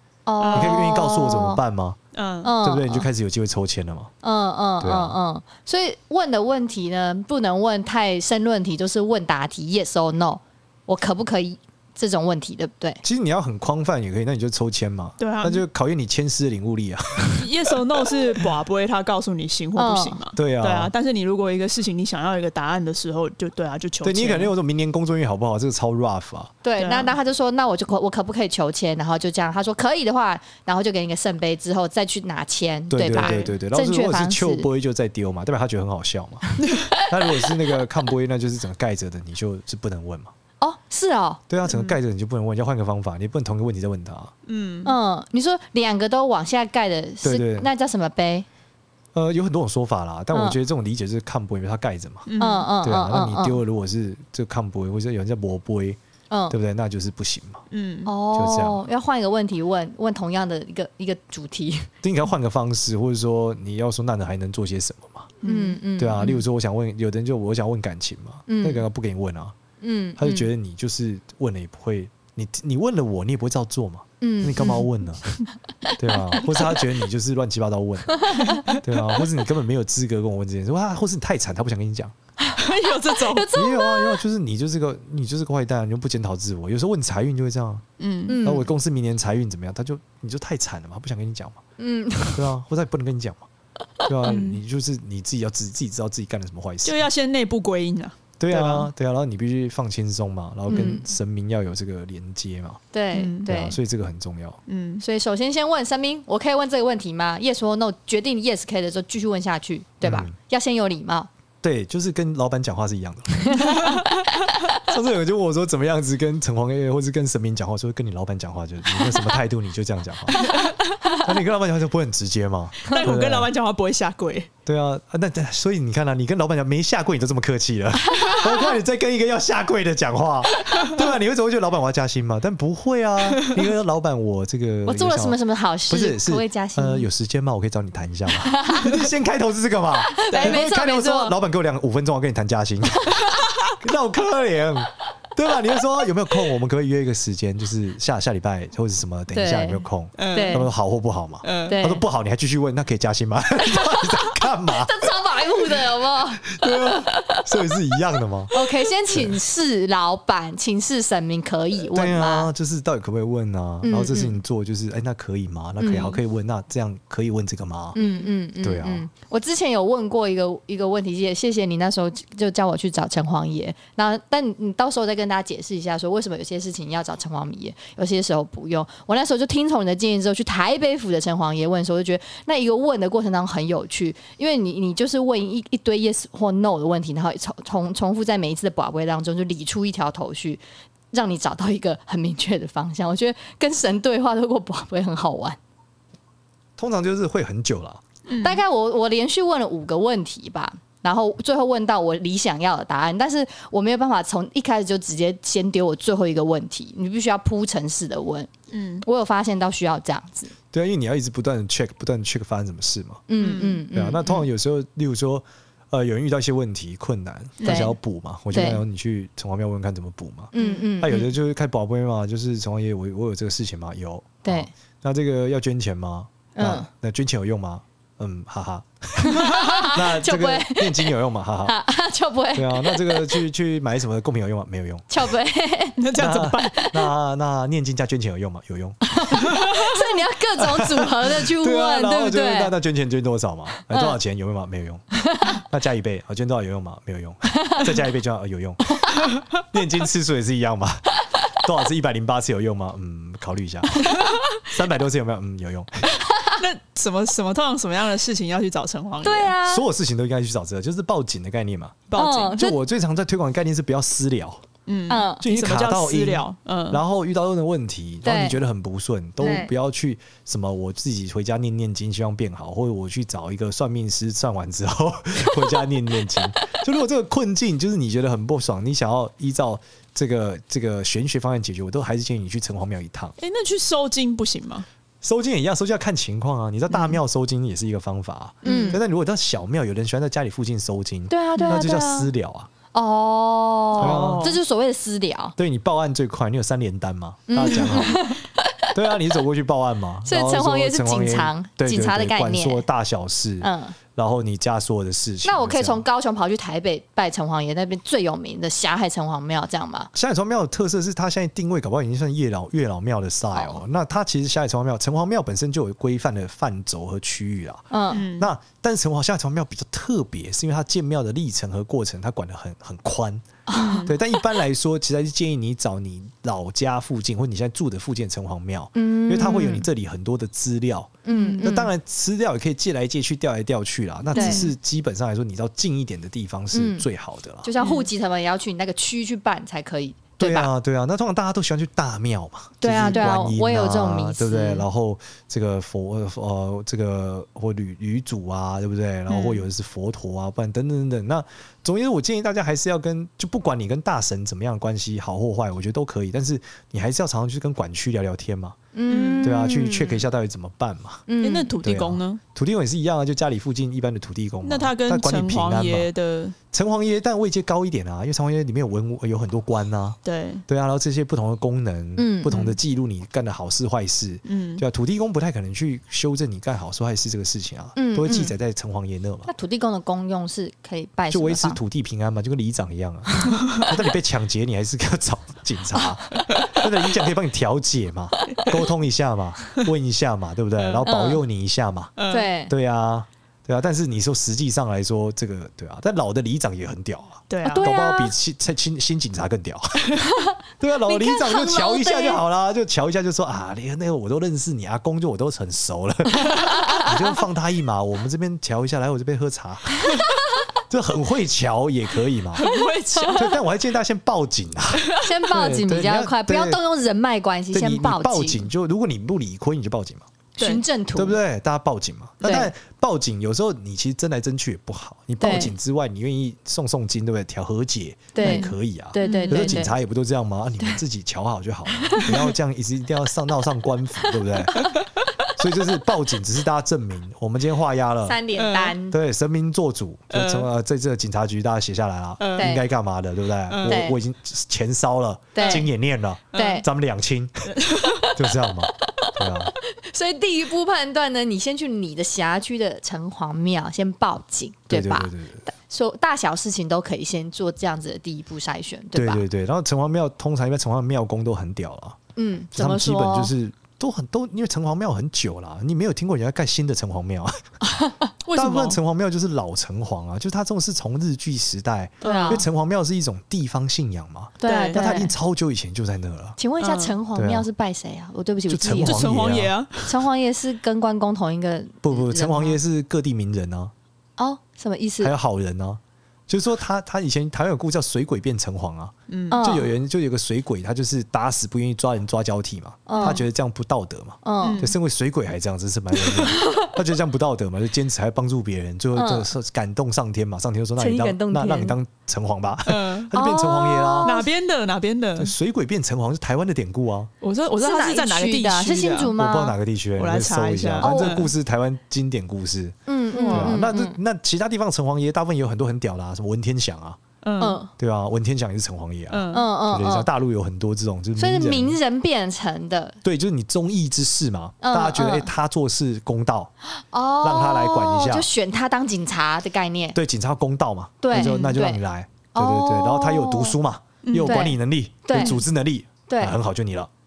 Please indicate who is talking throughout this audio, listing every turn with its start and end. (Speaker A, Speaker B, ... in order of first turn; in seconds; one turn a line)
Speaker A: 0.3-1.6
Speaker B: 0.4-0.9
Speaker C: 0.5-2.0
Speaker B: 2.1-2.5
Speaker A: 2.4-3.1
Speaker C: 2.6-4.1
Speaker A: 4.2-13.0
Speaker C: 4.8-5.2
Speaker C: 13.0-18.4
Speaker B: 15.2-15.6
Speaker B: 17.4-24.5
Speaker A: 19.8-20.2
Speaker C: 20.4-20.9
Speaker C: 24.0-26.5
Speaker A: 26.6-34.7
Speaker B: 26.8-27.2
Speaker C: 32.9-40.3
Speaker B: 33.2-33.5
Speaker A: 40.6-41.4
Speaker C: 41.5-44.3
Speaker B: 41.7-42.0
Speaker B: 44.5-45.0
Speaker A: 44.9-48.5
Speaker C: 47.2-47.7
Speaker C: 49.1-52.3
Speaker A: 50.3-50.6
Speaker B: 52.3-52.7
Speaker A: 52.4-53.6
Speaker C: 52.8-56.0
Speaker A: 56.3-56.6
Speaker C: 56.5-57.6
Speaker B: 57.7-58.1
Speaker A: 58.1-61.9
Speaker C: 58.3-58.8
Speaker C: 62.0-65.4
Speaker B: 65.4-66.3
Speaker A: 65.4-66.3
Speaker C: 66.0-69.5
Speaker A: 68.5-68.8
Speaker A: 69.8-70.3
Speaker C: 70.2-75.4
Speaker A: 74.2-74.8
Speaker C: 76.0-82.2
Speaker A: 78.2-78.7
Speaker B: 78.3-78.8
Speaker A: 82.4-84.2
Speaker B: 82.6-83.5
Speaker C: 83.5-87.8
Speaker B: 88.0-88.4
Speaker A: 88.3-88.7
Speaker C: 88.4-91.6
Speaker A: 91.8-92.5
Speaker C: 92.3-93.5
Speaker C: 94.0-97.0
Speaker B: 94.2-94.6
Speaker B: 96.8-98.2
Speaker C: 98.4-102.8
Speaker A: 98.5-98.8
Speaker A: 100.7-101.1
Speaker A: 102.9-103.8
Speaker B: 103.1-103.5
Speaker C: 103.5-104.6
Speaker B: 104.7-105.0
Speaker A: 105.0-111.3
Speaker C: 110.0-110.3
Speaker C: 111.6-114.0
Speaker B: 113.5-114.7
Speaker C: 114.7-120.5
Speaker B: 120.3-121.0
Speaker C: 121.2-123.5
Speaker B: 122.8-124.5
Speaker C: 124.7-135.4
Speaker A: 128.2-128.7
Speaker A: 134.9-137.1
Speaker C: 135.9-155.2
Speaker A: 138.4-139.0
Speaker A: 140.2-141.3
Speaker B: 140.3-141.1
Speaker B: 143.2-143.7
Speaker A: 149.3-150.7
Speaker B: 150.2-150.7
Speaker B: 151.4-151.8
Speaker A: 151.7-152.0
Speaker A: 153.8-157.5
Speaker C: 156.4-158.5
Speaker A: 158.5-162.5
Speaker C: 159.1-159.4
Speaker C: 161.9-168.0
Speaker A: 163.8-164.4
Speaker A: 165.8-166.2
Speaker B: 167.9-168.3
Speaker A: 167.9-195.6
Speaker C: 168.6-169.1
Speaker C: 196.8-198.0
Speaker B: 198.3-198.6
Speaker A: 198.4-208.5
Speaker B: 208.7-209.1
Speaker A: 209.0-210.5
Speaker C: 210.7-213.2
Speaker A: 213.3-214.4
Speaker B: 213.4-213.8
Speaker C: 213.9-231.8
Speaker B: 217.6-217.9
Speaker A: 217.6-217.9
Speaker A: 218.5-218.8
Speaker A: 220.5-221.2
Speaker B: 220.6-221.3
Speaker A: 224.4-224.7
Speaker A: 226.6-226.9
Speaker A: 229.2-233.4
Speaker B: 229.3-229.9
Speaker C: 232.5-235.4
Speaker A: 235.1-236.1
Speaker B: 236.0-236.9
Speaker C: 236.2-239.5
Speaker A: 239.1-242.7
Speaker B: 239.3-239.8
Speaker C: 240.6-254.1
Speaker A: 243.9-244.2
Speaker A: 245.2-245.6
Speaker A: 247.5-247.9
Speaker B: 254.0-254.4
Speaker C: 254.6-256.1
Speaker A: 256.3-256.6
Speaker B: 256.4-259.5
Speaker A: 259.2-259.9
Speaker C: 259.6-264.6
Speaker B: 262.1-262.7
Speaker A: 262.2-262.8
Speaker B: 264.9-267.0
Speaker A: 265.1-265.4
Speaker C: 265.4-283.4
Speaker A: 268.2-268.6
Speaker A: 269.4-269.7
Speaker B: 283.4-284.9
Speaker C: 285.2-292.7
Speaker B: 286.9-287.2
Speaker B: 288.6-289.0
Speaker A: 288.6-289.0
Speaker A: 291.3-292.3
Speaker A: 292.9-295.6
Speaker B: 294.0-294.6
Speaker C: 294.0-294.5
Speaker C: 295.6-298.4
Speaker A: 297.5-298.8
Speaker C: 298.9-306.0
Speaker A: 300.3-302.9
Speaker A: 303.6-304.0
Speaker A: 305.4-310.1
Speaker C: 310.1-323.5
Speaker A: 313.6-313.8
Speaker A: 317.9-318.2
Speaker B: 318.1-318.5
Speaker A: 323.7-324.2
Speaker B: 323.7-324.1
Speaker C: 324.1-337.7
Speaker A: 329.0-329.9
Speaker A: 331.3-331.9
Speaker B: 331.3-331.6
Speaker A: 334.3-334.7
Speaker B: 334.3-334.7
Speaker A: 336.7-337.1
Speaker A: 337.6-340.7
Speaker B: 337.8-338.1
Speaker C: 340.4-358.8
Speaker A: 342.8-344.9
Speaker B: 349.3-349.7
Speaker A: 358.9-360.2
Speaker B: 359.1-359.6
Speaker C: 359.4-361.2
Speaker A: 361.3-361.8
Speaker B: 361.4-362.4
Speaker C: 361.8-366.1
Speaker B: 364.6-366.6
Speaker C: 366.7-379.5
Speaker B: 370.2-370.6
Speaker A: 372.2-372.6
Speaker B: 372.5-372.8
Speaker B: 374.4-374.8
Speaker A: 378.0-378.5
Speaker A: 379.5-381.8
Speaker C: 381.3-392.1
Speaker B: 383.6-383.9
Speaker B: 390.8-391.1
Speaker A: 391.1-391.4
Speaker B: 392.2-392.5
Speaker A: 392.3-392.7
Speaker C: 392.7-400.2
Speaker B: 397.5-397.9
Speaker A: 397.6-398.3
Speaker A: 400.2-402.4
Speaker C: 400.8-410.3
Speaker A: 406.4-407.1
Speaker B: 406.5-407.0
Speaker C: 410.9-412.6
Speaker B: 412.5-413.5
Speaker A: 412.7-413.5
Speaker C: 413.3-416.8
Speaker B: 415.0-415.3
Speaker A: 415.2-418.7
Speaker C: 417.7-420.3
Speaker B: 420.6-420.8
Speaker A: 420.6-421.4
Speaker C: 421.1-434.9
Speaker A: 422.4-422.7
Speaker A: 425.4-425.7
Speaker A: 428.4-430.0
Speaker B: 428.4-429.9
Speaker A: 432.1-432.4
Speaker B: 434.8-435.0
Speaker C: 435.6-438.4
Speaker A: 438.3-439.2
Speaker B: 438.6-438.9
Speaker C: 439.1-447.7
Speaker B: 440.3-440.7
Speaker B: 442.4-442.8
Speaker A: 442.6-442.9
Speaker B: 443.7-444.0
Speaker A: 443.9-444.2
Speaker A: 445.6-445.9
Speaker B: 445.6-445.9
Speaker B: 446.5-446.8
Speaker A: 446.6-446.9
Speaker B: 447.7-448.3
Speaker C: 448.3-449.7
Speaker A: 449.8-459.4
Speaker C: 454.9-455.6
Speaker C: 459.1-462.2
Speaker A: 462.4-463.5
Speaker C: 462.7-467.6
Speaker B: 468.4-469.0
Speaker C: 468.6-476.6
Speaker B: 472.2-472.6
Speaker A: 472.2-472.7
Speaker A: 474.6-475.3
Speaker B: 474.6-475.1
Speaker A: 476.6-479.2
Speaker B: 476.8-477.2
Speaker C: 477.3-477.7
Speaker C: 478.7-479.7
Speaker B: 479.0-480.1
Speaker A: 480.1-482.8
Speaker C: 482.0-483.9
Speaker A: 484.4-485.3
Speaker C: 485.2-504.3
Speaker B: 489.3-489.6
Speaker A: 489.5-489.9
Speaker A: 493.1-493.4
Speaker B: 493.1-493.4
Speaker A: 494.4-494.9
Speaker B: 494.6-494.9
Speaker A: 496.3-497.0
Speaker A: 499.1-499.5
Speaker A: 501.0-502.0
Speaker B: 502.9-503.3
Speaker A: 503.3-504.4
Speaker B: 504.2-505.5
Speaker C: 505.4-507.3
Speaker B: 507.4-509.4
Speaker A: 507.8-509.8
Speaker C: 509.4-513.0
Speaker B: 510.2-511.5
Speaker A: 511.0-511.4
Speaker A: 513.1-514.2
Speaker B: 513.3-513.8
Speaker C: 513.5-517.2
Speaker B: 517.4-517.8
Speaker A: 517.6-517.9
Speaker C: 518.0-522.0
Speaker B: 519.3-519.7
Speaker A: 519.5-520.3
Speaker A: 521.4-523.2
Speaker C: 523.2-526.7
Speaker A: 524.8-525.5
Speaker A: 526.9-530.2
Speaker C: 527.4-528.5
Speaker C: 530.1-537.1
Speaker A: 531.2-532.0
Speaker B: 531.3-531.8
Speaker A: 532.5-533.8
Speaker B: 534.2-534.7
Speaker A: 534.5-535.6
Speaker A: 536.3-536.6